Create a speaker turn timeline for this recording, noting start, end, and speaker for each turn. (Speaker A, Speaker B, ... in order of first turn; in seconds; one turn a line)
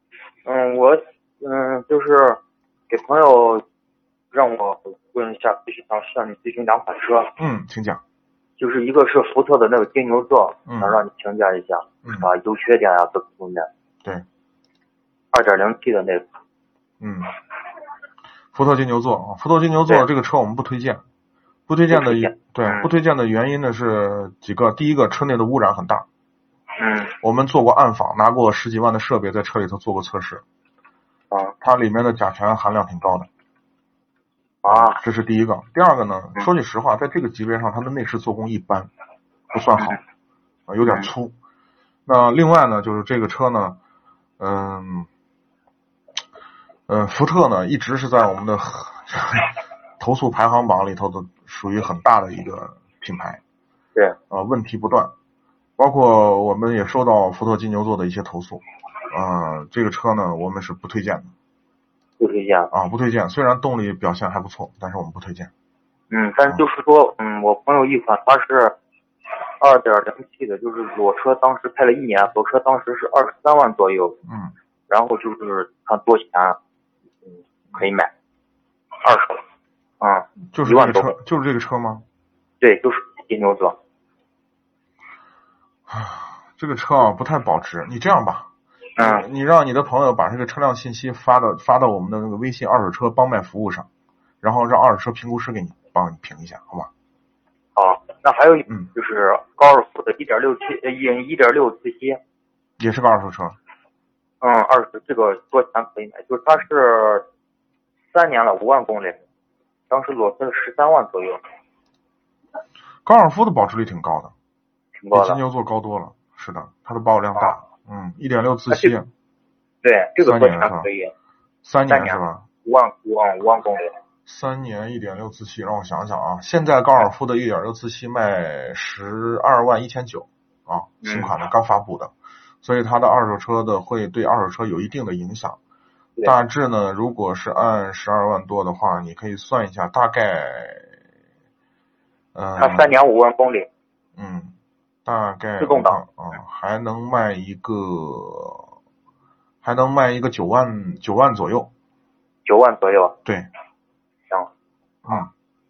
Speaker A: 0.5-2.4
Speaker A: 2.9-3.6
Speaker A: 4.3-7.3
Speaker B: 7.4-8.0
Speaker A: 8.6-13.7
Speaker B: 10.7-11.0
Speaker B: 12.0-12.3
Speaker A: 15.3-16.2
Speaker B: 17.0-17.3
Speaker B: 18.5-21.0
Speaker B: 21.7-26.1
Speaker A: 21.9-22.9
Speaker A: 26.8-27.1
Speaker B: 27.2-30.4
Speaker B: 31.6-33.3
Speaker A: 34.6-35.0
Speaker B: 34.7-38.9
Speaker B: 39.5-40.0
Speaker B: 40.7-41.3
Speaker B: 42.1-43.8
Speaker B: 44.4-45.1
Speaker B: 46.9-53.4
Speaker B: 54.3-55.1
Speaker B: 55.8-61.3
Speaker A: 62.2-62.7
Speaker B: 62.7-65.5
Speaker A: 66.1-68.7
Speaker A: 69.6-74.2
Speaker B: 74.3-74.5
Speaker A: 74.9-76.6
Speaker A: 77.7-78.1
Speaker A: 79.0-79.4
Speaker A: 80.0-81.2
Speaker B: 80.5-82.0
Speaker A: 82.6-83.8
Speaker B: 85.9-93.9
Speaker A: 89.0-89.3
Speaker B: 94.4-96.9
Speaker A: 97.8-102.2
Speaker B: 102.8-103.6
Speaker A: 104.4-107.2
Speaker A: 108.1-109.2
Speaker A: 109.9-111.4
Speaker B: 113.0-114.3
Speaker A: 115.0-115.4
Speaker B: 115.1-119.1
Speaker A: 119.8-121.1
Speaker B: 120.2-120.9
Speaker B: 121.6-122.5
Speaker A: 121.9-123.9
Speaker B: 124.3-135.6
Speaker A: 131.0-131.3
Speaker B: 136.2-140.9
Speaker B: 142.3-142.9
Speaker A: 142.6-143.7
Speaker B: 144.2-148.7
Speaker A: 145.6-146.0
Speaker B: 149.6-151.7
Speaker A: 152.4-153.2